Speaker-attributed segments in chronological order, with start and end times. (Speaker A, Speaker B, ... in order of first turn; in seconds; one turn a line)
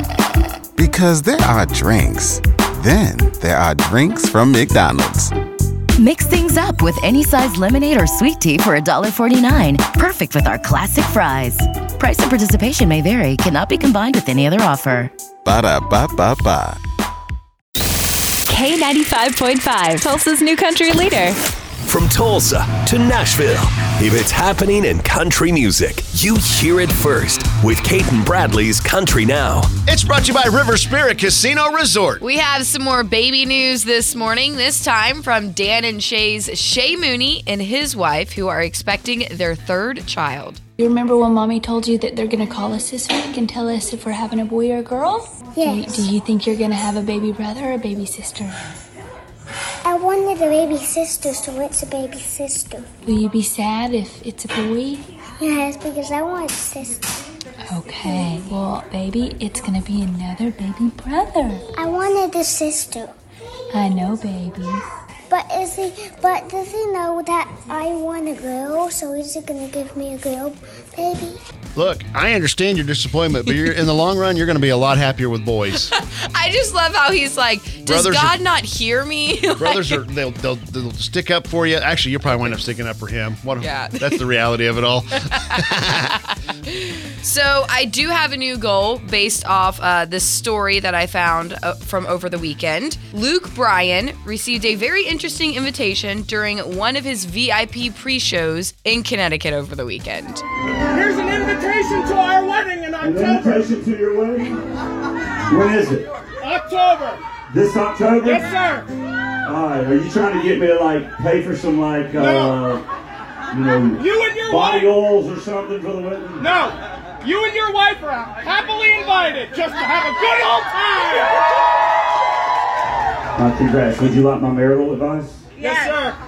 Speaker A: 0.8-5.3
Speaker B: 6.0-15.1
Speaker A: 15.4-16.8
Speaker C: 18.5-21.3
Speaker D: 21.8-29.8
Speaker E: 29.8-32.2
Speaker F: 32.2-40.6
Speaker G: 40.8-48.7
Speaker H: 45.5-46.1
Speaker H: 49.8-52.9
Speaker G: 53.1-55.0
Speaker H: 55.4-57.1
Speaker G: 57.7-61.7
Speaker H: 61.8-63.1
Speaker G: 63.7-64.8
Speaker H: 65.3-71.4
Speaker E: 71.8-75.9
Speaker F: 75.7-80.0
Speaker E: 77.8-78.4
Speaker E: 79.6-86.1
Speaker F: 83.6-84.2
Speaker F: 86.7-100.4
Speaker I: 101.0-103.6
Speaker J: 103.0-104.5
Speaker J: 105.5-106.1
Speaker I: 106.4-107.2
Speaker J: 107.5-108.5
Speaker I: 108.2-108.8
Speaker J: 109.5-112.8
Speaker I: 112.2-112.6
Speaker J: 113.5-116.5
Speaker I: 114.0-114.9
Speaker I: 116.4-116.7
Speaker I: 117.2-121.3
Speaker J: 123.4-125.4
Speaker I: 125.6-126.0